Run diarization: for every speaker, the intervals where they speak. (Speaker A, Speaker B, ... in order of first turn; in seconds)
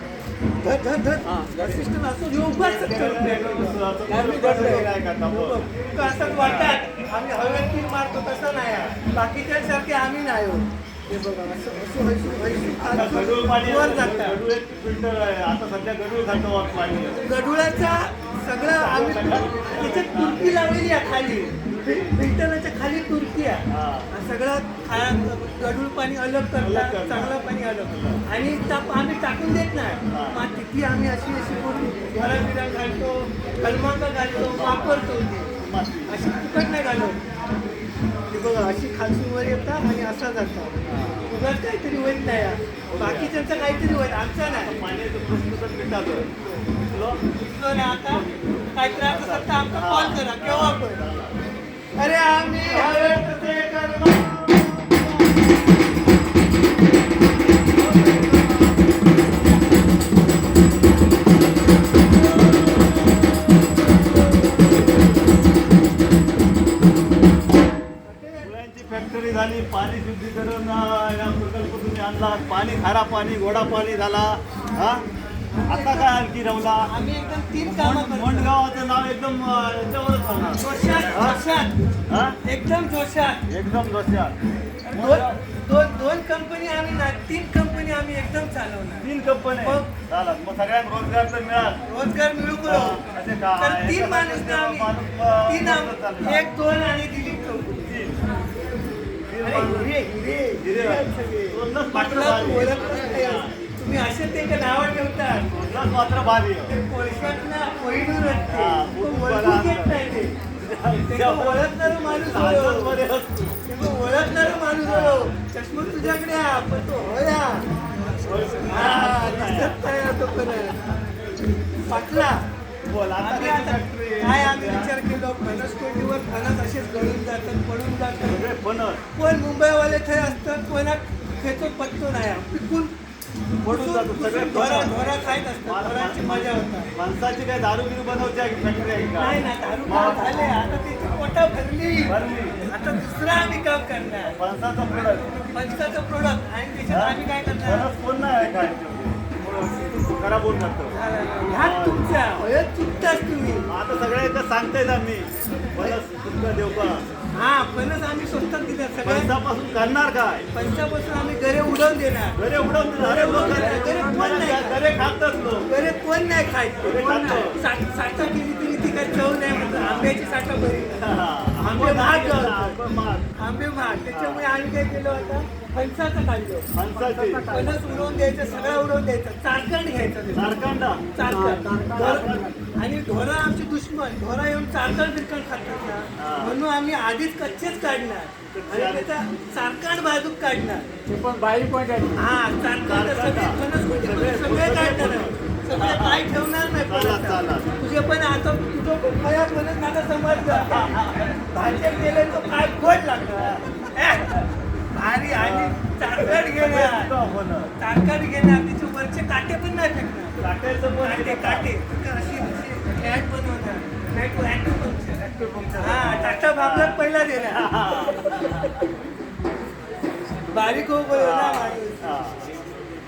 Speaker A: 0.6-14.4, 17.2-35.5, 36.1-37.2, 38.3-40.7, 41.3-44.7, 47.4-51.0, 52.0-53.5, 68.0-68.5, 75.5-76.1, 76.9-78.6, 80.6-81.8, 82.4-83.4, 84.9-89.1, 89.6-89.9, 91.8-93.0, 93.6-94.9, 95.5-97.9, 99.4-105.5, 106.7-110.4, 111.1-113.0, 113.7-117.6, 118.7-120.8, 121.9-122.5, 123.2-128.4, 129.1-132.9, 133.7-136.9, 139.2-144.3, 144.9-147.9, 150.9-153.7, 157.3-159.3, 160.5-162.4, 163.0-164.8, 165.7-172.8, 173.4-180.6, 181.1-190.9, 192.2-207.1, 207.8-210.4, 211.0-215.2, 215.8-218.8, 220.5-222.2
Speaker B: 1.2-1.8, 4.1-4.9, 167.0-167.5, 181.2-182.6, 191.1-192.2
Speaker C: 2.4-5.6, 6.3-6.8, 12.8-17.2, 18.6-20.7, 23.7-24.1, 26.6-28.2, 30.1-30.4, 34.3-36.1, 40.9-41.3, 42.9-43.6, 44.5-46.3, 46.9-47.2, 48.0-48.4, 49.1-51.4, 52.6-55.3, 57.7-58.7, 68.4-75.0, 75.6-76.9, 77.6-81.4, 82.1-82.4, 83.5-84.3, 84.9-85.4, 89.0-91.8, 92.6-96.4, 97.8-98.2, 99.3-99.9, 100.6-103.5, 105.5-106.7, 108.5-110.0, 110.5-113.5, 114.8-115.3, 118.2-119.8, 122.9-124.9, 128.2-129.0, 133.6-140.4, 142.1-142.6, 144.2-145.3, 146.9-152.0, 153.7-157.0, 159.0-160.4, 162.4-165.7, 166.8-167.6, 169.5-170.1, 170.9-173.3, 174.1-174.4, 176.7-178.8, 180.3-181.1, 181.9-182.4, 186.2-186.6, 188.5-189.1, 192.8-196.3, 196.8-197.7, 200.3-201.9, 203.3-203.6, 205.3-207.7, 210.4-211.7, 215.2-218.7, 221.1-222.5